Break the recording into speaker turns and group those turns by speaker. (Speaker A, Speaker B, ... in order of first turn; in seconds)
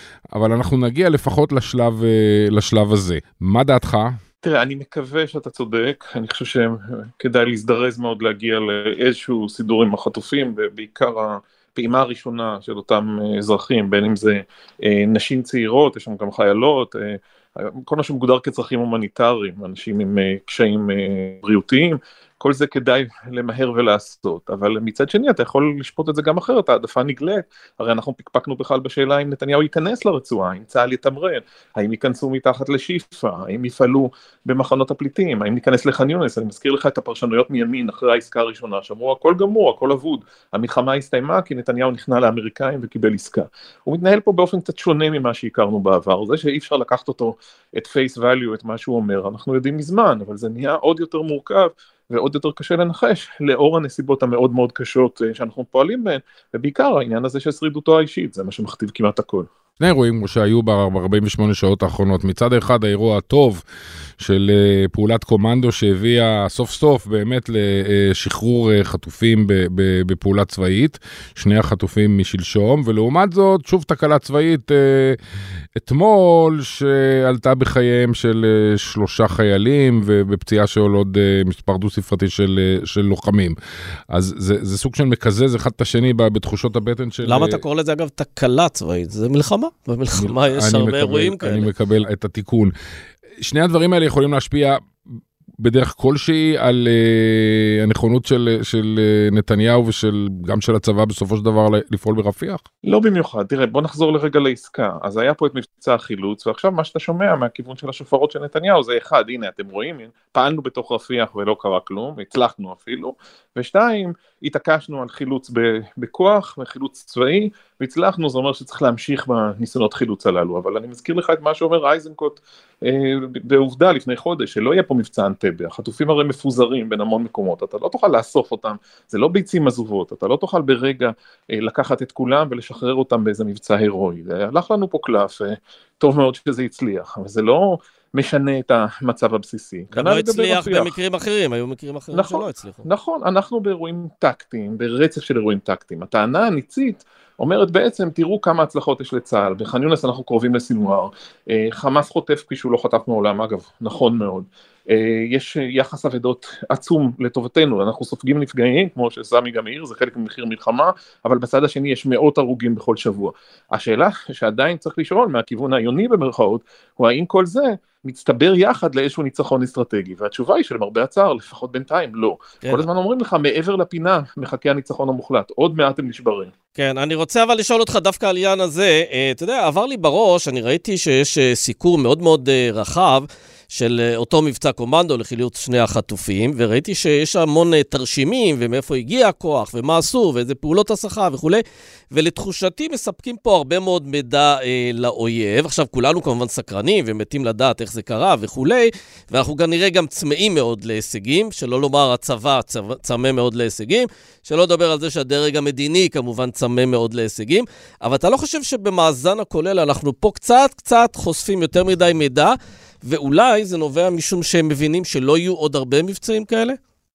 Speaker A: 0.3-4.2, 59.8-63.6, 64.2-75.2, 75.7-83.5, 84.1-87.6, 90.2-92.7, 93.4-94.8, 95.6-102.6
Speaker B: 4.4-59.5, 102.8-140.9, 142.1-176.5
Speaker C: 87.2-91.7, 139.9-142.8, 176.8-216.8